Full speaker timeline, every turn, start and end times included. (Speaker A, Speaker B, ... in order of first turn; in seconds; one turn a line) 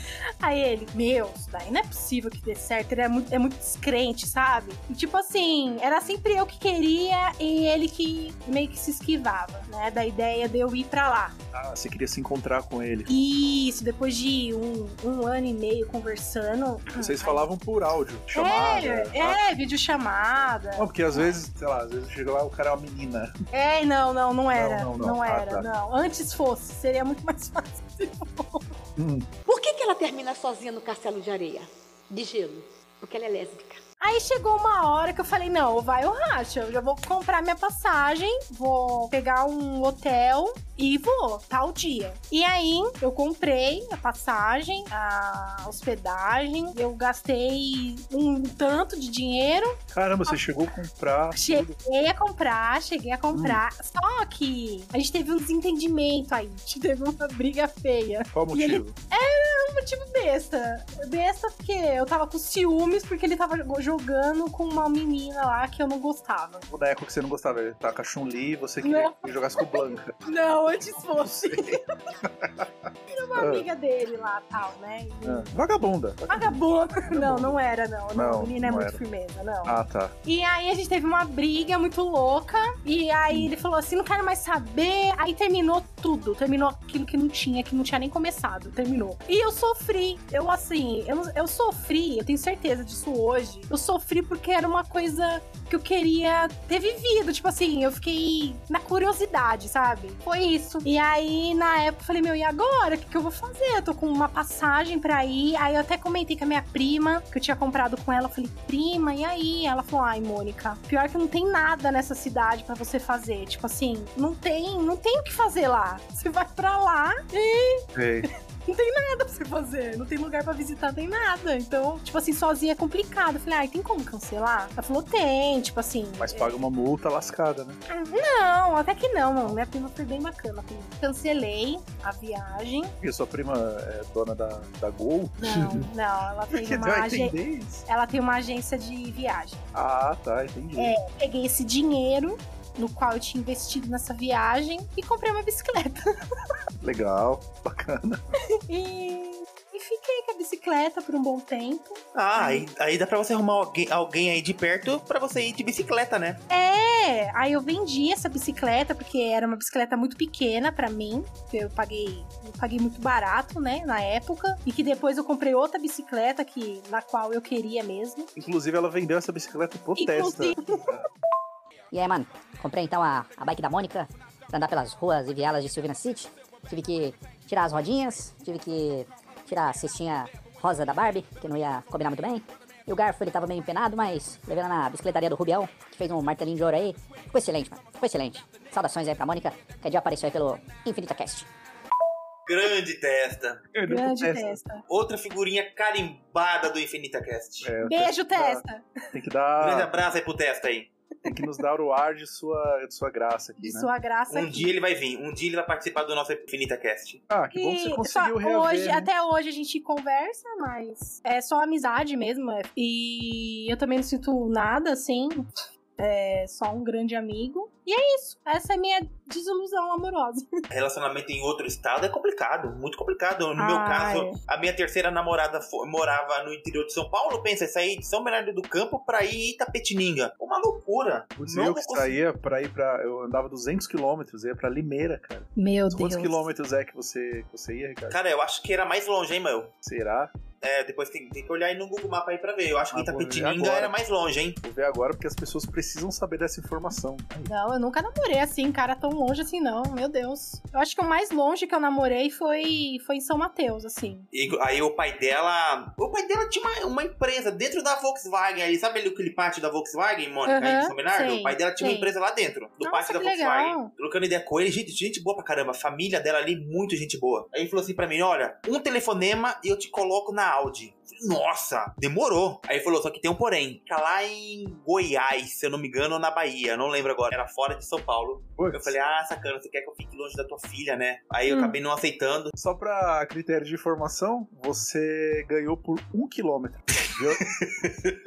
Speaker A: 0.4-11.3
Speaker B: 11.5-13.1
Speaker A: 13.1-17.5
Speaker B: 17.0-19.4
Speaker A: 18.4-21.3
Speaker B: 20.8-23.3
Speaker A: 23.5-28.7
Speaker B: 24.5-25.7
Speaker B: 29.0-29.3
Speaker C: 29.5-33.8
Speaker A: 34.0-50.5
Speaker B: 49.9-51.8
Speaker A: 51.4-66.7
Speaker B: 53.3-53.6
Speaker B: 58.3-59.0
Speaker B: 66.7-73.7
Speaker A: 68.8-71.8
Speaker A: 73.1-75.5
Speaker B: 75.2-77.6
Speaker A: 76.3-117.8
Speaker B: 78.1-79.0
Speaker B: 79.7-80.2
Speaker B: 117.9-118.3
Speaker A: 118.7-126.5
Speaker B: 126.2-127.8
Speaker A: 127.9-132.9
Speaker B: 133.0-135.8
Speaker A: 135.4-137.4
Speaker B: 136.5-137.8
Speaker A: 137.9-139.6
Speaker B: 139.7-140.9
Speaker A: 140.8-146.0
Speaker B: 146.8-148.2
Speaker A: 148.7-152.7
Speaker D: 152.2-156.4
Speaker A: 156.5-168.3
Speaker B: 168.4-171.1
Speaker A: 170.0-170.8
Speaker E: 171.9-191.5
Speaker D: 192.5-193.6
Speaker B: 193.7-194.6
Speaker A: 193.9-194.8
Speaker D: 194.9-197.7
Speaker B: 197.6-200.0
Speaker A: 197.8-198.9
Speaker D: 199.6-200.9
Speaker B: 201.3-203.9
Speaker A: 203.6-204.7
Speaker D: 204.3-207.2
Speaker B: 207.3-209.1
Speaker A: 207.5-215.5
Speaker A: 216.0-220.5
Speaker D: 220.7-232.2
Speaker A: 223.6-224.4
Speaker B: 231.4-238.2
Speaker A: 235.6-236.4
Speaker D: 238.1-239.7
Speaker B: 239.8-240.3
Speaker D: 240.6-244.6
Speaker B: 242.9-243.9
Speaker B: 244.6-247.5
Speaker A: 247.5-254.3
Speaker D: 254.3-282.5
Speaker A: 260.5-262.1
Speaker A: 262.8-263.9
Speaker B: 278.6-279.0
Speaker A: 281.5-281.8
Speaker B: 282.6-287.4
Speaker D: 287.8-288.1